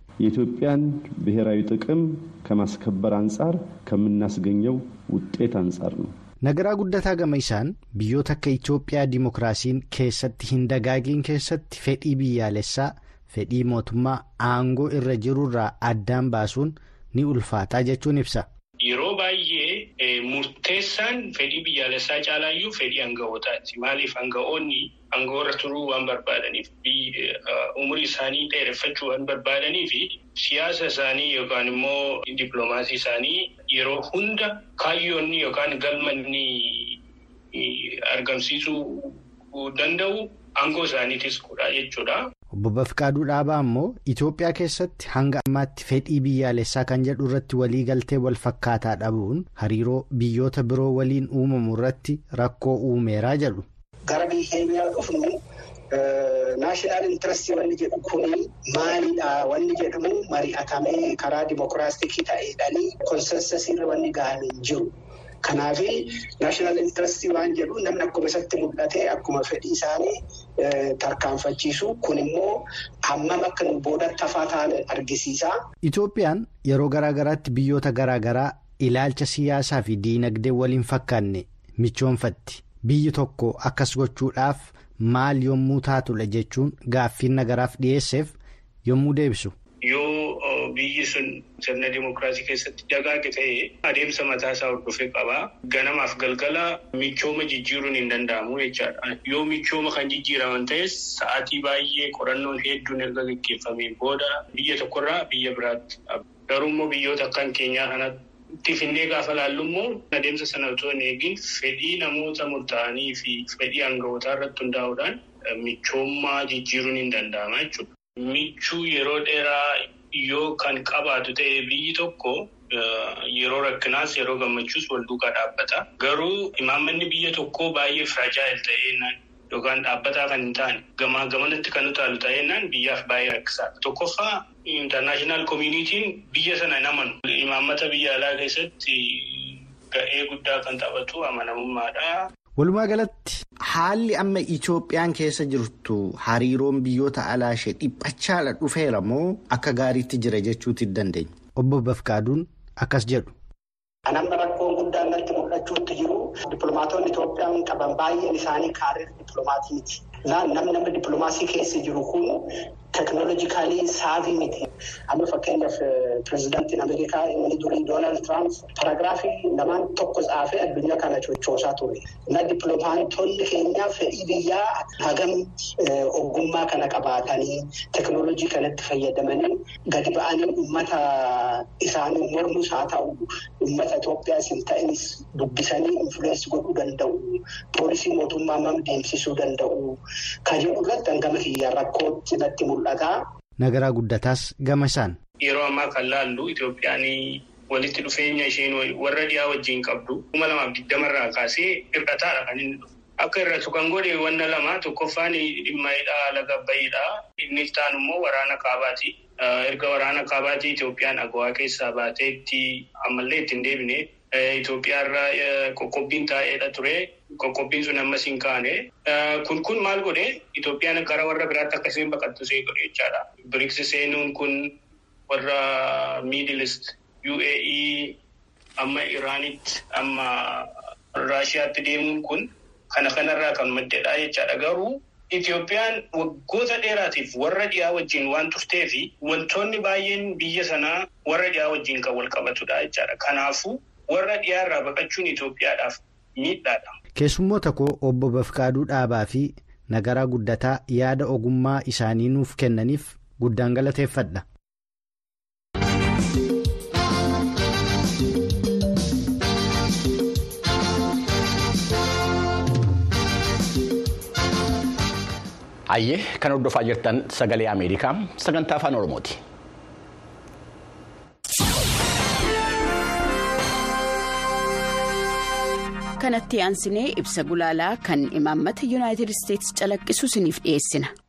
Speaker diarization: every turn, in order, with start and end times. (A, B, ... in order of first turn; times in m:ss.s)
0:00.2-0:06.1 A
0:06.4-0:18.4 B
0:18.8-0:37.0 C
0:37.5-0:42.2 C
0:42.6-0:53.6 B
0:54.1-0:55.4 D
0:55.9-1:04.9 D
1:05.4-1:15.5 D
1:15.8-1:29.5 B
1:29.8-2:22.2 C
2:22.6-2:33.3 B
2:34.1-3:13.2 D
3:13.6-3:15.2 B
3:15.4-3:44.7 C
3:45.3-3:48.2 C
3:48.8-4:06.9 C
4:07.2-4:14.4 B
4:25.9-4:29.4 E
4:36.2-4:41.1 F